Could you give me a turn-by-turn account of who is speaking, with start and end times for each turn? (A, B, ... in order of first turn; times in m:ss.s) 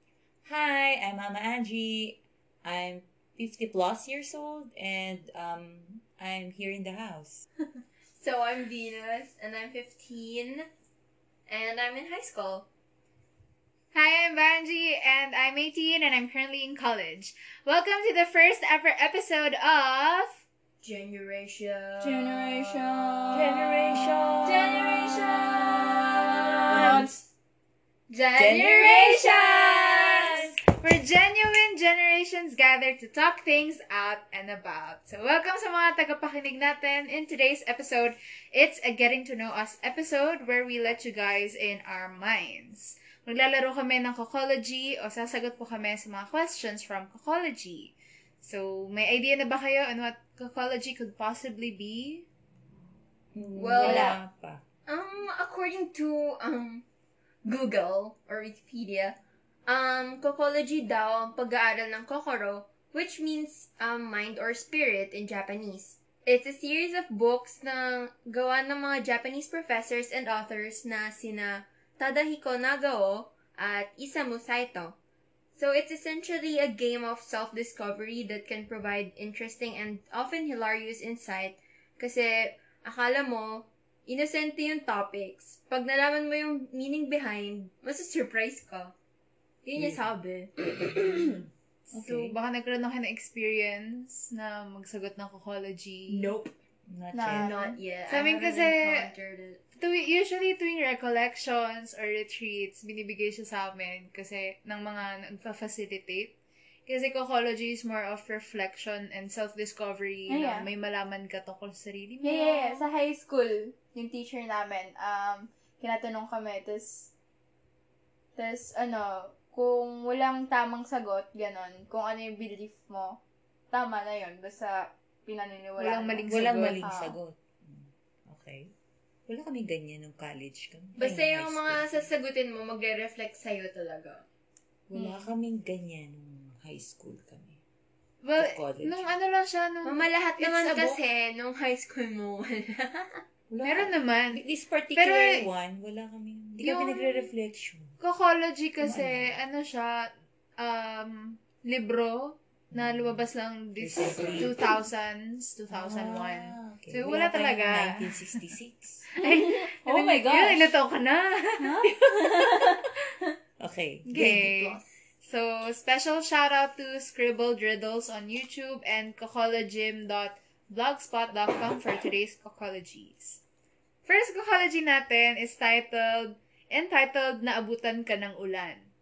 0:00.4-0:07.4 A
0:08.1-0:10.7 B
0:11.5-0:12.6 B
0:13.9-0:20.4 C
0:20.8-0:23.4 B
0:22.0-0:23.7 D
0:23.3-0:25.2 A
0:24.4-0:27.0 B
0:25.0-0:25.3 D
0:26.6-0:27.1 A
0:26.6-0:27.2 D
0:28.1-0:52.2 C
0:28.4-0:30.6 A
0:28.6-0:30.4 D
0:53.3-0:54.6 A
0:53.6-0:54.2 B
0:53.8-0:54.2 D
0:54.9-0:56.8 B
0:57.4-1:15.0 B
1:15.6-1:28.9 B
1:29.6-1:31.4 B
1:29.7-1:30.1 A
1:30.8-1:32.4 A
1:31.9-1:36.3 C
1:36.1-1:36.5 B
1:36.9-1:37.5 A
1:37.1-1:37.8 D
1:37.3-1:39.6 B
1:38.1-1:39.1 C
1:39.8-1:46.3 C
1:46.9-1:52.8 C
1:50.3-1:50.7 D
1:52.2-1:57.1 D
1:58.4-2:03.2 D
2:03.7-2:07.2 D
2:05.8-2:06.9 C
2:06.3-2:08.7 A
2:09.3-2:12.1 A
2:11.0-2:14.2 B
2:14.9-2:17.6 A
2:14.9-2:15.3 D
2:18.2-2:21.0 C
2:18.4-2:19.1 A
2:19.8-2:23.2 B
2:23.5-2:28.0 A
2:23.6-2:24.4 C
2:24.9-2:25.4 C
2:26.6-2:27.3 C
2:28.0-2:38.1 C
2:28.8-2:29.4 A
2:32.7-2:33.2 A
2:33.8-2:34.7 A
2:35.7-2:39.1 A
2:39.1-2:42.8 C
2:39.2-2:40.7 D
2:41.6-2:42.8 D
2:43.6-2:44.5 A
2:44.1-2:53.4 C
2:44.4-2:44.9 B
2:54.0-2:58.8 C